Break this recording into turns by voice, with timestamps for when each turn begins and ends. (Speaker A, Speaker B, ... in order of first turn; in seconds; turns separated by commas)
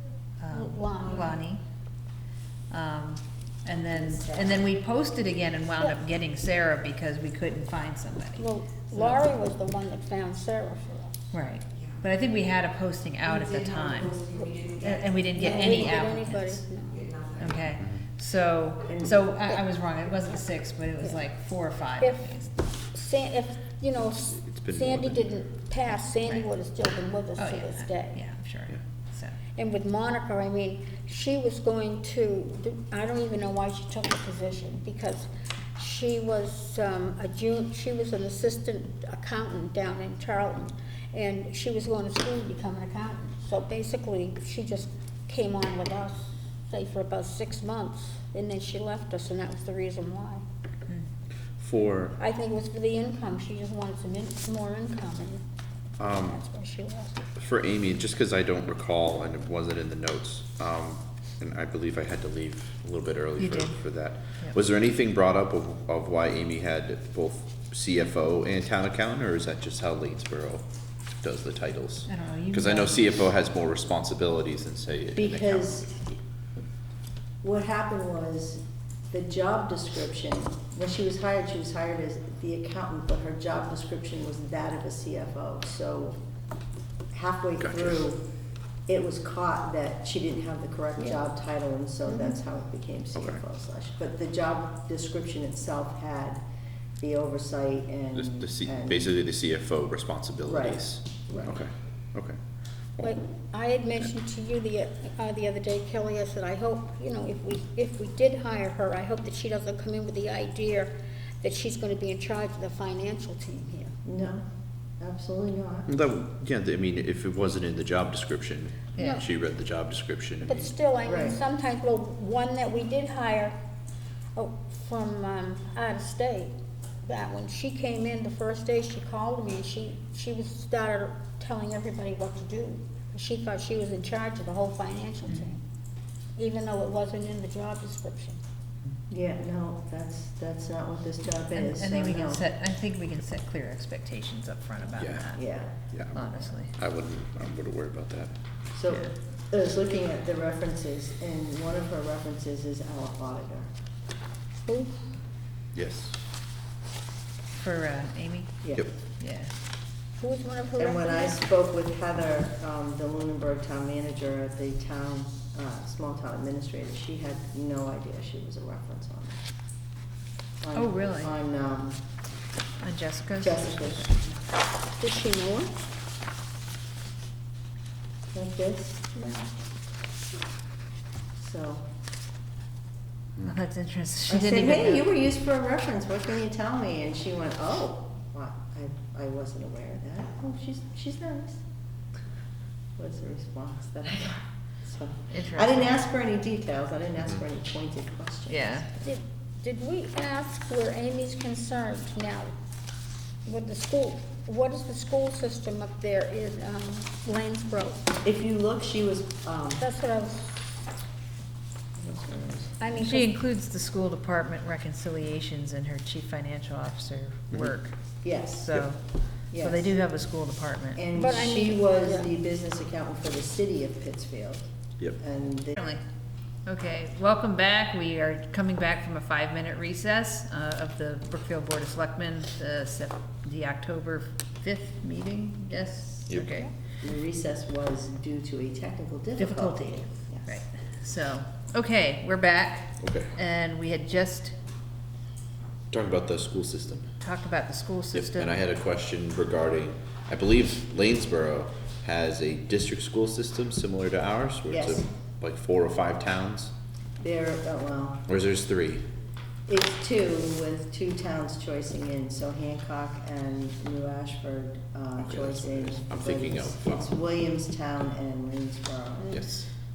Speaker A: 0.4-1.6, Speaker B: 0.5-1.3, Speaker A: 2.7-9.2, Speaker B: 8.4-11.1, Speaker A: 11.3-16.6, Speaker B: 15.4-17.1, Speaker A: 17.4-22.6, Speaker C: 18.9-19.2, Speaker B: 22.0-22.3, Speaker B: 22.9-28.2, Speaker D: 24.3-25.3, Speaker A: 27.4-29.4, Speaker B: 29.6-50.4, Speaker D: 51.6-52.2, Speaker B: 52.2-55.4, Speaker D: 56.0-56.4, Speaker B: 56.0-57.2, Speaker D: 57.4-70.6, Speaker A: 63.4-63.8, Speaker D: 71.2-75.8, Speaker A: 72.1-73.1, Speaker C: 75.2-76.1, Speaker C: 77.4-86.2, Speaker C: 87.1-88.3, Speaker D: 87.6-88.0, Speaker C: 88.9-96.4, Speaker D: 93.2-93.4, Speaker C: 97.0-99.1, Speaker D: 98.2-102.4, Speaker C: 100.5-101.6, Speaker B: 103.0-114.0, Speaker C: 114.0-114.4, Speaker C: 115.0-115.9, Speaker D: 115.9-120.7, Speaker A: 119.0-119.2, Speaker B: 119.0-119.3, Speaker B: 120.4-123.5, Speaker C: 121.0-121.4, Speaker B: 124.4-126.5, Speaker B: 127.1-135.6, Speaker B: 136.4-138.4, Speaker C: 139.1-142.4, Speaker A: 141.5-145.6, Speaker D: 145.0-145.3, Speaker C: 145.3-145.7, Speaker D: 145.9-148.3, Speaker A: 146.1-146.8, Speaker C: 148.8-153.7, Speaker A: 148.9-149.1, Speaker B: 154.7-155.0, Speaker D: 155.7-156.2, Speaker A: 157.6-159.5, Speaker C: 158.6-158.9, Speaker B: 160.2-161.4, Speaker C: 160.8-169.4, Speaker C: 170.6-172.0, Speaker A: 170.7-171.3, Speaker A: 172.8-174.2, Speaker C: 173.4-174.2, Speaker B: 175.0-175.8, Speaker C: 178.3-179.1, Speaker B: 179.1-179.5, Speaker C: 181.4-181.9, Speaker A: 183.4-185.1, Speaker C: 184.3-191.6, Speaker C: 193.0-198.9, Speaker A: 195.3-196.0, Speaker A: 198.5-198.9, Speaker B: 199.0-202.5, Speaker B: 203.5-208.1, Speaker C: 208.2-209.8, Speaker B: 209.8-210.8, Speaker C: 212.0-212.9, Speaker B: 212.8-213.3, Speaker A: 213.0-221.0, Speaker C: 218.2-218.7, Speaker C: 219.5-219.9, Speaker C: 221.0-225.8, Speaker B: 221.1-222.3, Speaker A: 225.8-226.0, Speaker A: 226.7-236.7, Speaker C: 237.0-240.6, Speaker A: 239.4-244.6, Speaker D: 243.0-243.3, Speaker D: 245.9-247.1, Speaker A: 247.2-248.6, Speaker D: 248.1-256.7, Speaker C: 254.7-255.1, Speaker C: 257.2-258.3, Speaker D: 258.3-259.1, Speaker C: 259.7-269.5, Speaker D: 265.2-267.1, Speaker D: 269.3-269.7